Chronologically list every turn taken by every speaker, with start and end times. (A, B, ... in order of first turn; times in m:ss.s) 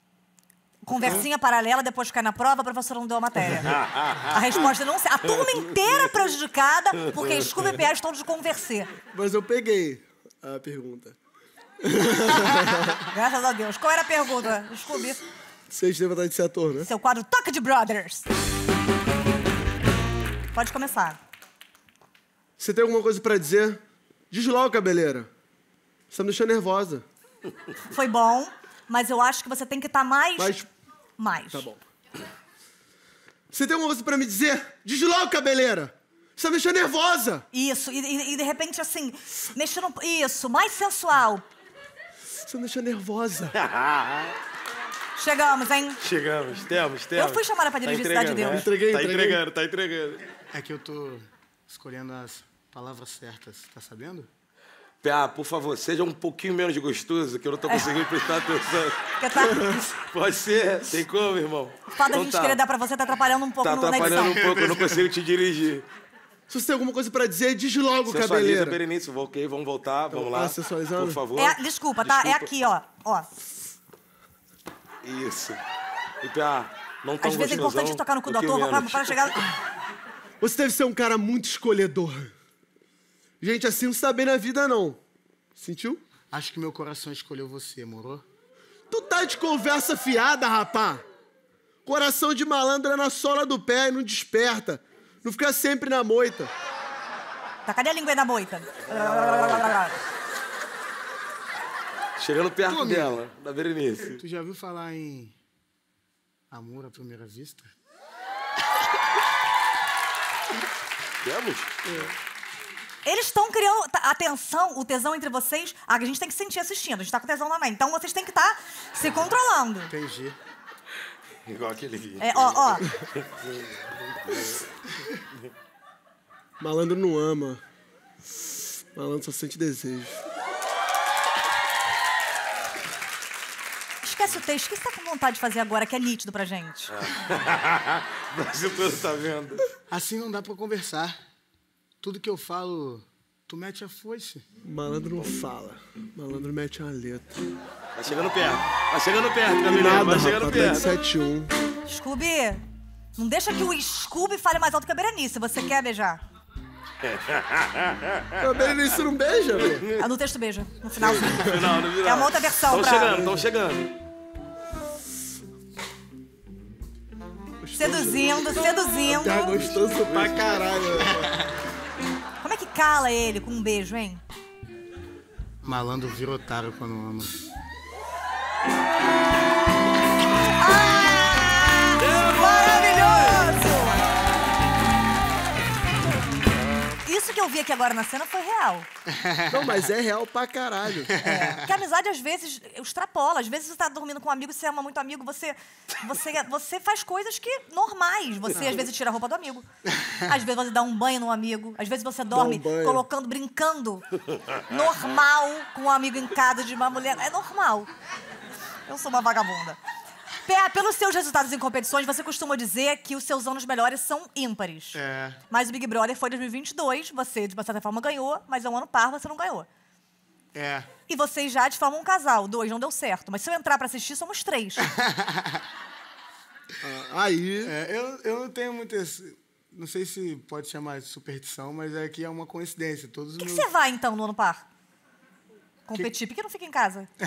0:00.8-0:08.9 A
0:03.6-0:04.4 B
0:07.2-0:07.7 B
0:09.1-0:11.2 C
0:11.8-0:13.0 C
0:12.5-0:15.2 A
0:15.7-0:16.9 C
0:16.8-0:18.2 A
0:20.5-0:21.2 A
0:22.6-0:23.8 C
0:24.3-0:25.3 C
0:26.1-0:27.0 C
0:27.9-0:30.5 A
0:30.4-0:30.7 C
0:31.2-0:31.7 A
0:31.5-0:31.8 C
0:33.5-0:37.4 C
0:37.5-0:41.5 A
0:42.4-0:43.6 C
0:43.5-0:44.3 B
0:45.2-0:46.0 A
0:46.0-0:50.2 B
0:47.1-0:48.7 A
0:48.4-0:49.4 C
0:50.5-0:54.3 D
0:55.0-0:59.2 B
0:57.7-0:57.9 A
0:59.2-1:00.0 A
0:59.4-0:59.8 C
1:00.0-1:02.6 B
1:01.9-1:04.4 A
1:03.6-1:05.8 B
1:04.0-1:05.0 D
1:06.5-1:08.8 C
1:08.0-1:12.5 B
1:10.1-1:11.2 C
1:11.4-1:13.3 A
1:15.0-1:15.6 B
1:16.2-1:19.4 B
1:17.2-1:19.5 A
1:20.4-1:22.3 C
1:23.4-1:25.0 C
1:25.6-1:26.0 C
1:26.3-1:28.2 D
1:28.9-1:31.0 C
1:31.8-1:36.5 C
1:37.6-1:40.0 A
1:39.3-1:39.6 B
1:42.2-1:44.2 B
1:42.7-1:43.2 D
1:44.1-1:45.3 D
1:46.5-1:47.7 D
1:51.2-1:52.1 B
1:53.0-1:59.9 A
1:59.9-2:00.4 D
2:01.4-2:04.6 B
2:02.2-2:02.9 A
2:06.6-2:07.6 C
2:08.4-2:10.2 C
2:14.0-2:16.9 A
2:16.9-2:19.7 B
2:19.9-2:21.2 D
2:22.0-2:24.4 D
2:24.6-2:27.4 C
2:28.0-2:30.9 B
2:29.7-2:31.5 C
2:31.8-2:32.6 A
2:33.2-2:36.2 A
2:37.0-2:38.9 B
2:38.4-2:39.8 C
2:39.5-2:40.0 B
2:40.0-2:43.4 A
2:41.0-2:43.9 B
2:47.6-2:51.3 C
2:47.8-2:49.6 A
2:49.4-2:50.4 B
2:52.4-2:54.2 A
2:55.6-2:57.4 D
3:00.3-3:04.0 A
3:02.0-3:03.4 B
3:07.0-3:08.9 A
3:09.1-3:09.7 D
3:09.5-3:11.1 C
3:11.2-3:11.7 D
3:11.2-3:19.6 A
3:20.2-3:27.9 A
3:22.3-3:23.0 C
3:28.9-3:29.8 A
3:30.4-3:35.0 A
3:34.9-3:35.4 D
3:35.5-3:39.7 A
3:40.5-3:40.9 D
3:41.1-3:44.9 A
3:44.9-3:45.6 D
3:46.8-3:47.7 C
3:47.6-3:53.7 D
3:53.4-3:54.6 A
3:55.9-3:57.1 A